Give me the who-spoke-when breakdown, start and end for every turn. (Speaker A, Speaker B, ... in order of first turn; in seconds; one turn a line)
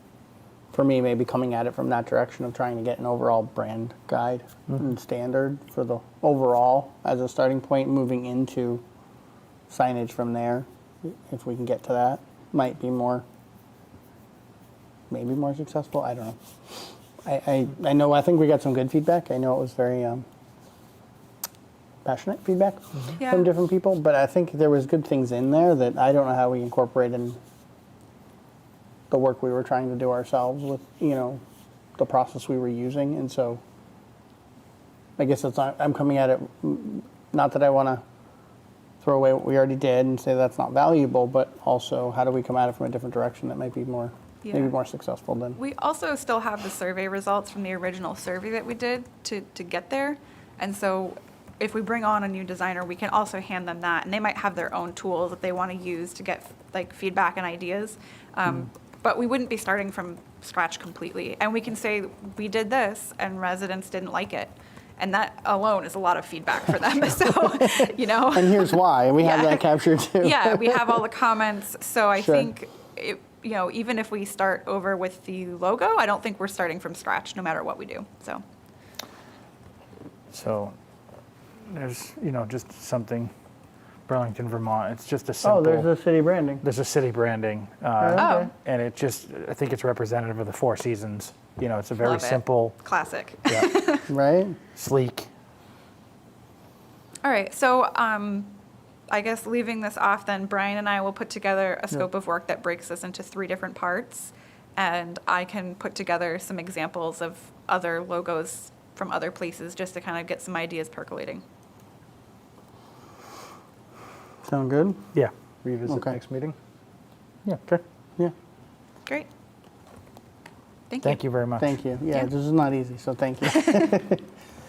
Speaker A: 0.7-8.8
Speaker A: 9.7-13.2
Speaker A: 15.1-16.4
Speaker A: 17.2-20.2
Speaker A: 22.0-27.4
Speaker B: 23.2-23.4
Speaker A: 29.1-31.4
Speaker A: 32.0-33.6
Speaker A: 35.2-38.0
Speaker A: 39.0-45.6
Speaker B: 44.4-44.7
Speaker B: 45.5-78.4
Speaker A: 67.3-71.0
Speaker A: 72.1-72.5
Speaker C: 80.3-80.8
Speaker C: 81.7-83.3
Speaker C: 84.1-85.9
Speaker A: 85.4-86.6
Speaker C: 86.6-92.8
Speaker A: 88.0-88.5
Speaker B: 88.2-88.5
Speaker B: 92.0-94.1
Speaker C: 93.5-93.7
Speaker A: 94.1-94.6
Speaker C: 94.7-95.3
Speaker B: 97.2-98.6
Speaker B: 99.1-111.4
Speaker A: 114.4-115.1
Speaker C: 115.1-116.5
Speaker A: 115.9-116.1
Speaker A: 117.7-118.3
Speaker B: 120.9-121.2
Speaker C: 121.0-121.7
Speaker A: 121.6-124.3